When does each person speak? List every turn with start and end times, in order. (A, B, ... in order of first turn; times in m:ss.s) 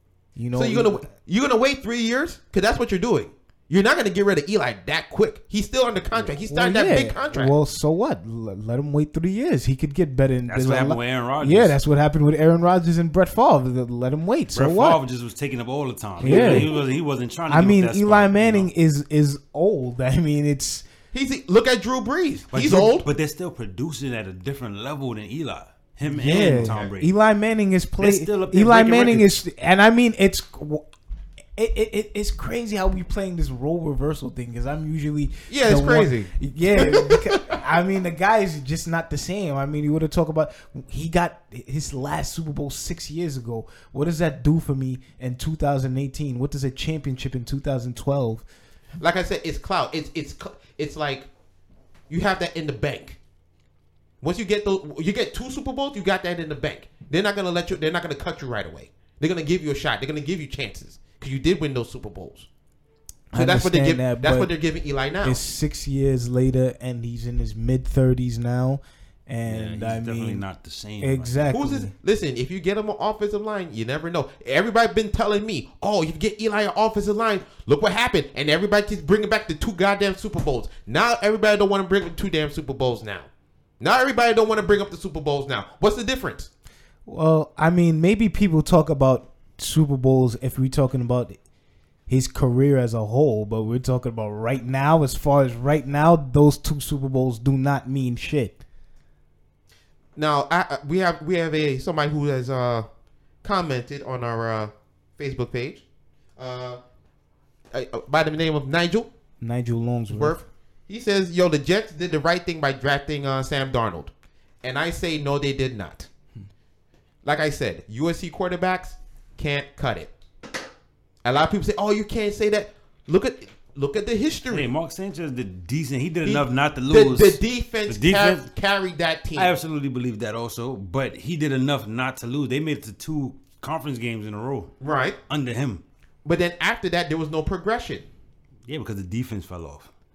0:00.4-0:01.1 A
0:00.5-0:07.5 B
0:06.5-0:15.0 A
0:10.5-0:11.8 C
0:14.5-0:18.7 C
0:16.2-0:16.7 A
0:16.2-0:16.8 B
0:17.5-0:20.8 A
0:21.1-0:23.1 B
0:22.5-0:27.1 C
0:26.1-0:30.8 A
0:26.2-0:26.9 B
0:28.0-0:29.3 C
0:31.6-0:48.4 A
0:35.5-0:37.6 B
0:49.0-0:51.3 B
0:52.1-0:53.2 B
0:54.2-1:02.5 B
1:03.3-1:04.5 A
1:03.3-1:05.4 B
1:05.2-1:10.4 A
1:09.5-1:11.5 C
1:11.0-1:11.9 A
1:11.5-1:26.5 B
1:27.0-1:31.4 A
1:32.1-1:38.6 A
1:40.2-1:42.8 B
1:43.4-1:45.8 B
1:46.4-1:46.8 B
1:47.7-1:49.1 B
1:49.4-1:50.4 A
1:50.1-1:54.1 B
1:54.6-1:56.1 B
1:57.2-2:00.1 B
2:01.2-2:04.7 B
2:04.5-2:08.5 C
2:06.2-2:09.5 B
2:09.4-2:14.7 C
2:14.8-2:15.2 B
2:15.3-2:15.8 C
2:16.2-2:18.1 B
2:18.7-2:19.9 C